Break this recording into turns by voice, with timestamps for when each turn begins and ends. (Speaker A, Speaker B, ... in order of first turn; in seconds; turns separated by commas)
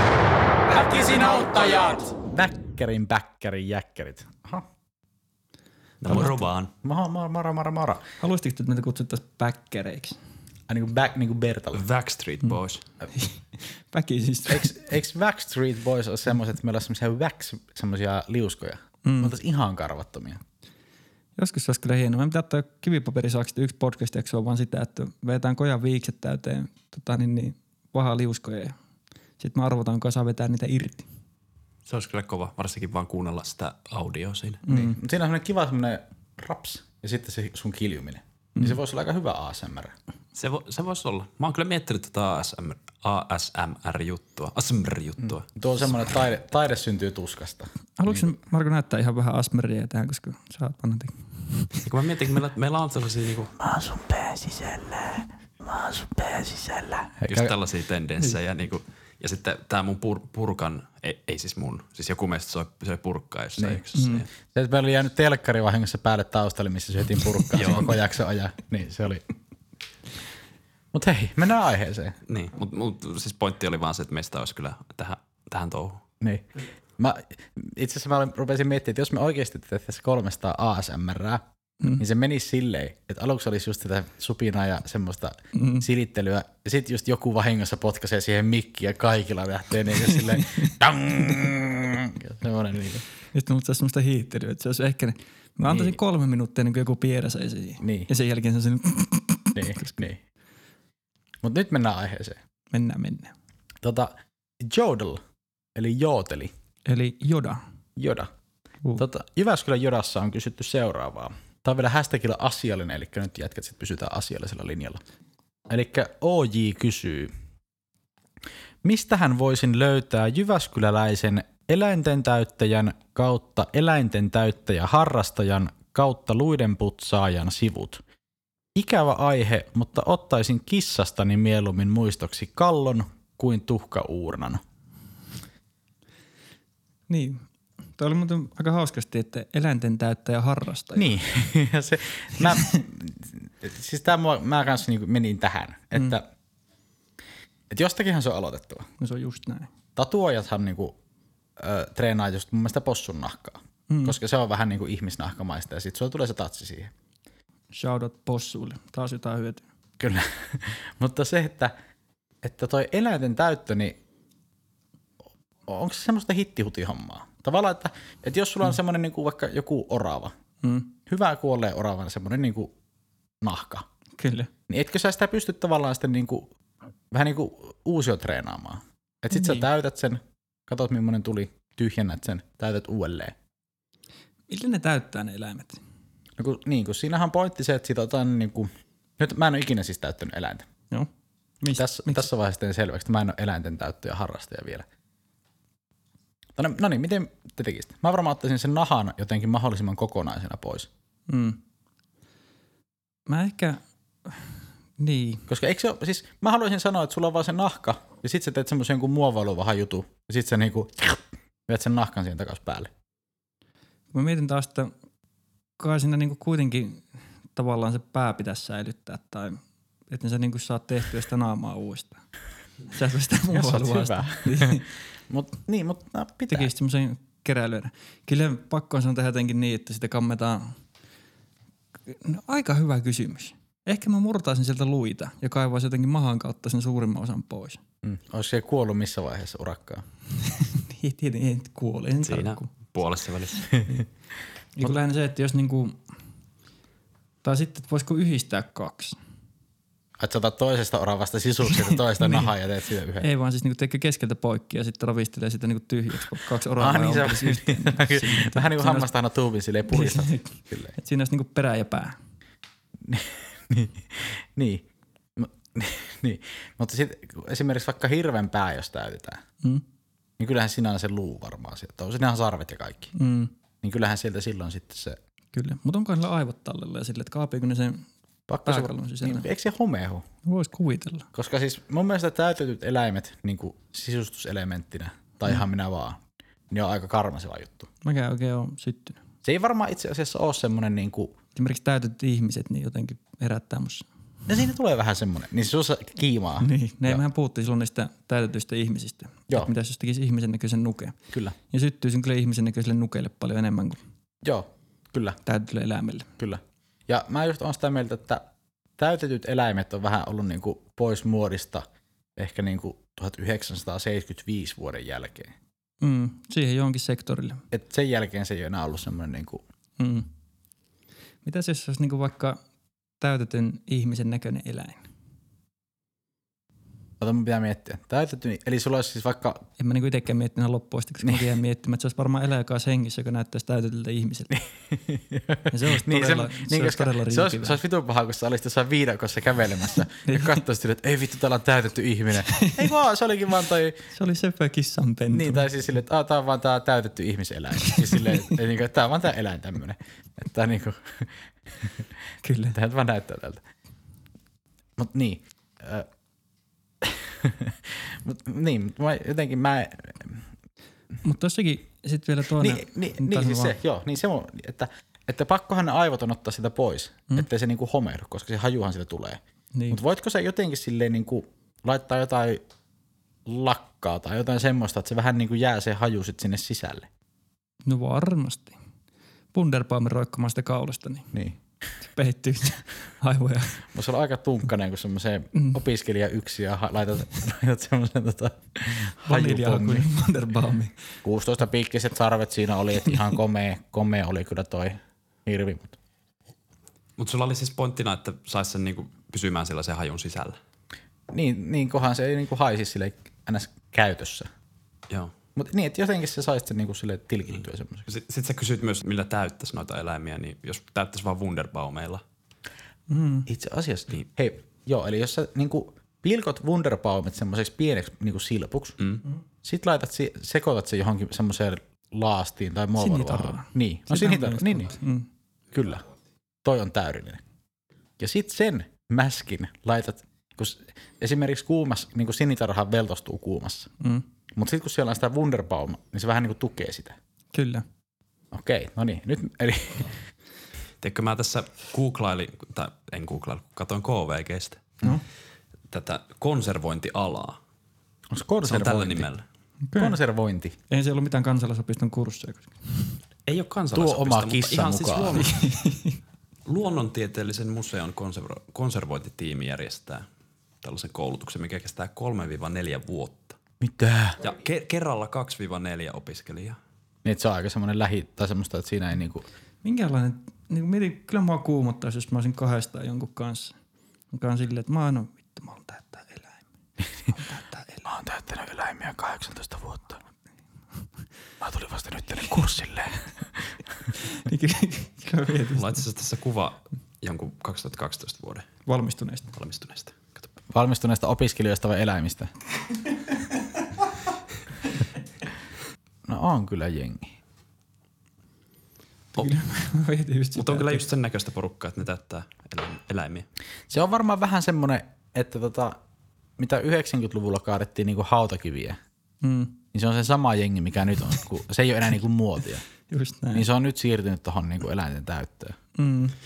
Speaker A: 0.7-4.7, Speaker B: 6.0-6.7, Speaker A: 6.1-8.0, Speaker C: 8.2-10.2, Speaker A: 10.7-11.8, Speaker B: 11.7-12.8, Speaker C: 13.1-14.7, Speaker A: 14.5-20.4, Speaker C: 19.0-19.3, Speaker C: 21.4-28.7, Speaker C: 29.4-31.1, Speaker B: 31.9-34.6, Speaker C: 34.6-35.0, Speaker A: 34.7-39.9, Speaker B: 40.3-45.5, Speaker A: 45.4-48.3, Speaker C: 48.0-51.8, Speaker B: 51.8-53.5, Speaker A: 53.6-55.2, Speaker A: 55.8-57.5, Speaker B: 57.3-64.3, Speaker C: 63.9-64.2, Speaker A: 64.4-69.2, Speaker B: 67.5-68.0, Speaker A: 70.9-72.2, Speaker B: 72.3-76.0, Speaker A: 76.2-81.4, Speaker A: 82.0-93.0, Speaker C: 85.5-85.8, Speaker C: 90.0-90.7, Speaker C: 93.3-99.9, Speaker A: 95.6-96.0, Speaker A: 97.8-98.1, Speaker A: 99.5-100.2, Speaker A: 101.4-102.4, Speaker C: 102.7-103.3, Speaker A: 103.8-104.1, Speaker A: 104.6-105.2, Speaker A: 105.7-106.5, Speaker C: 106.8-107.6, Speaker A: 108.0-108.3, Speaker A: 109.0-115.0, Speaker A: 115.7-117.3, Speaker A: 118.8-128.0, Speaker A: 128.7-134.6, Speaker C: 137.1-137.4, Speaker C: 137.9-141.2, Speaker A: 140.9-146.2, Speaker C: 142.4-142.8, Speaker A: 147.7-148.8, Speaker C: 149.0-149.7, Speaker A: 149.9-151.0, Speaker A: 151.6-156.9, Speaker C: 153.9-154.2, Speaker C: 157.7-159.6, Speaker A: 160.0-161.7, Speaker A: 162.4-163.9, Speaker A: 165.7-170.3, Speaker C: 170.6-170.9, Speaker A: 171.1-172.7, Speaker A: 173.4-173.8, Speaker C: 174.2-174.5, Speaker A: 174.7-176.5, Speaker A: 177.1-183.3, Speaker C: 179.3-179.7, Speaker C: 184.5-185.8, Speaker A: 186.4-190.7, Speaker C: 191.6-192.3, Speaker A: 191.7-194.8, Speaker A: 196.6-200.9, Speaker C: 201.3-201.6, Speaker C: 203.3-205.4, Speaker A: 205.5-212.9, Speaker C: 214.1-214.9, Speaker C: 215.8-222.2, Speaker C: 222.9-224.9, Speaker A: 223.5-226.7, Speaker C: 226.5-230.7, Speaker C: 232.1-237.8, Speaker A: 238.0-240.0, Speaker C: 240.6-242.7, Speaker B: 242.2-243.7, Speaker C: 244.8-246.0, Speaker C: 247.4-249.2, Speaker A: 250.2-253.3, Speaker C: 251.7-252.5, Speaker C: 253.2-259.1, Speaker A: 256.8-260.9, Speaker C: 259.9-262.1, Speaker A: 263.1-264.8, Speaker A: 265.4-269.4, Speaker A: 270.4-273.1, Speaker C: 273.1-273.5, Speaker A: 273.8-275.2, Speaker C: 275.5-278.1, Speaker A: 278.5-280.2, Speaker C: 278.6-279.5, Speaker C: 280.4-281.3, Speaker A: 281.3-286.2, Speaker A: 286.7-287.9, Speaker C: 288.0-289.2, Speaker A: 289.4-291.3, Speaker C: 291.5-294.1, Speaker A: 294.5-297.2, Speaker C: 296.6-301.1, Speaker C: 301.7-304.0, Speaker A: 304.4-305.4, Speaker C: 305.4-306.3, Speaker A: 306.4-308.4, Speaker A: 309.0-311.8, Speaker A: 312.4-315.5, Speaker C: 316.0-317.6, Speaker A: 317.7-319.6, Speaker C: 320.0-320.3, Speaker C: 321.4-322.6, Speaker C: 323.2-325.0, Speaker A: 327.2-329.6, Speaker C: 329.8-334.6, Speaker A: 334.9-344.0, Speaker C: 335.7-337.8, Speaker C: 340.2-340.6, Speaker C: 342.4-342.9, Speaker C: 344.1-345.6, Speaker A: 345.3-351.3, Speaker C: 347.8-348.5, Speaker C: 352.4-352.8, Speaker A: 352.7-353.6, Speaker A: 355.0-356.1, Speaker A: 357.0-360.4, Speaker C: 361.2-363.8, Speaker A: 362.6-369.4, Speaker C: 369.7-370.0, Speaker A: 369.9-372.6, Speaker A: 373.5-377.1, Speaker C: 377.8-378.8, Speaker C: 379.5-381.3, Speaker A: 381.3-381.6, Speaker C: 382.1-383.8, Speaker A: 383.9-390.1, Speaker C: 389.2-390.9, Speaker A: 391.2-395.9, Speaker B: 397.2-400.6, Speaker A: 401.3-404.5, Speaker A: 405.6-408.1, Speaker B: 408.1-412.2, Speaker C: 413.1-413.5, Speaker A: 413.5-419.0, Speaker A: 419.6-424.9, Speaker C: 423.0-425.3, Speaker A: 425.7-426.0, Speaker A: 426.6-427.4, Speaker A: 428.2-433.9, Speaker C: 434.0-434.3, Speaker A: 434.5-437.1, Speaker C: 437.5-437.8, Speaker A: 438.5-440.1, Speaker B: 441.0-444.9, Speaker B: 445.9-447.6, Speaker A: 448.3-449.3, Speaker B: 448.6-449.4, Speaker C: 449.9-450.2, Speaker A: 449.9-450.7, Speaker C: 450.9-453.1, Speaker B: 453.5-455.6, Speaker A: 453.9-455.4, Speaker C: 455.4-456.2, Speaker B: 456.7-460.2, Speaker B: 460.8-463.6, Speaker A: 463.8-464.4, Speaker B: 464.4-466.8, Speaker A: 467.2-469.4, Speaker C: 469.8-473.7, Speaker C: 474.3-476.6, Speaker C: 477.2-478.1, Speaker A: 478.1-480.2, Speaker A: 481.6-483.3, Speaker C: 484.2-486.0, Speaker B: 485.7-488.7, Speaker C: 488.9-489.5, Speaker B: 489.5-490.5, Speaker A: 490.7-492.5, Speaker A: 496.3-497.3, Speaker B: 499.3-499.6, Speaker C: 499.3-501.0, Speaker B: 500.5-503.5, Speaker A: 503.9-505.9, Speaker A: 506.6-509.0, Speaker C: 509.4-509.8, Speaker A: 509.9-512.8, Speaker C: 513.1-513.6, Speaker A: 513.5-515.8, Speaker C: 516.0-516.3